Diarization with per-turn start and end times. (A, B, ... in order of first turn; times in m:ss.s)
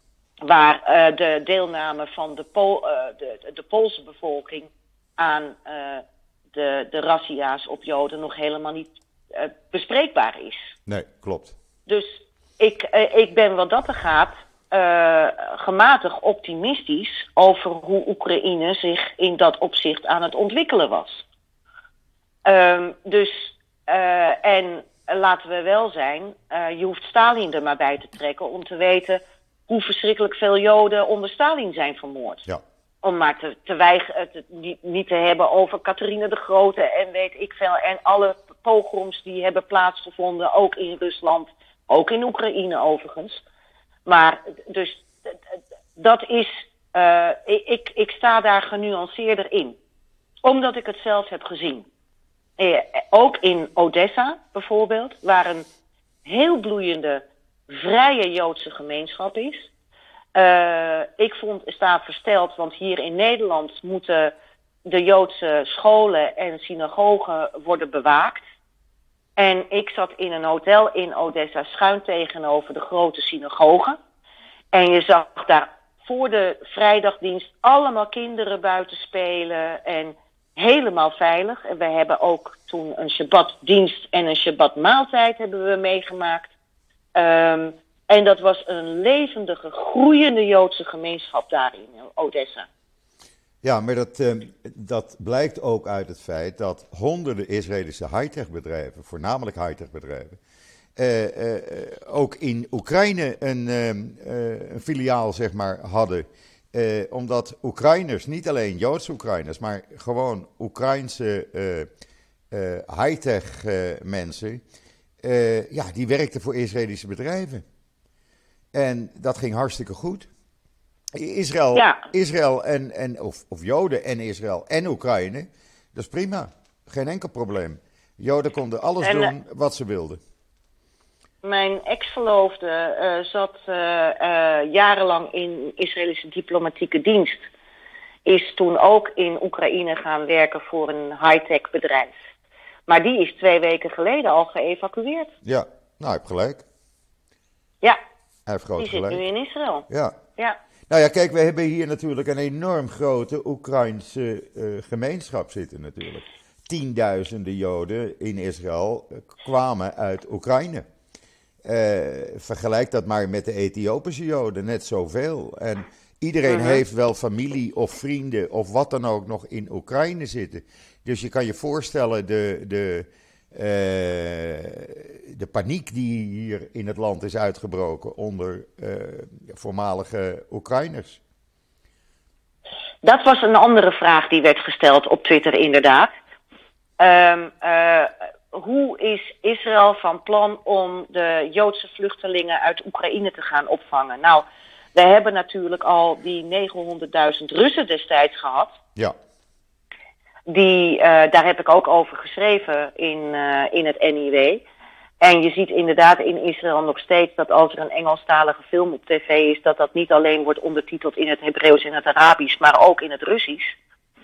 0:00.4-0:10.7 A
0:10.9-0:11.5 B
0:11.9-0:21.2 A
0:22.4-0:32.5 A
0:33.0-0:43.4 A
0:44.1-0:45.1 A
0:46.0-0:49.8 A
0:50.4-0:51.9 A
0:52.6-0:55.7 A
0:56.2-0:59.7 A
1:00.4-1:04.3 A
1:04.8-1:08.4 A
1:09.4-1:14.0 A
1:14.7-1:26.5 A
1:27.2-1:32.7 A
1:33.6-1:40.4 B
1:41.0-1:51.9 B
1:52.5-1:54.6 B
1:55.2-1:57.6 B
1:58.7-2:00.3 B
2:01.1-2:10.2 B
2:01.7-2:02.0 A
2:09.0-2:09.3 A
2:11.4-2:17.5 A
2:18.2-2:22.2 A
2:22.9-2:25.3 A
2:25.4-2:26.6 B
2:28.5-2:29.2 B
2:28.8-2:29.9 A
2:29.9-2:30.2 B
2:30.9-2:40.8 B
2:41.6-3:01.2 B
2:46.5-2:46.8 A
3:03.0-3:06.1 A
3:07.0-3:18.8 A
3:20.5-3:24.6 A
3:25.2-3:33.8 A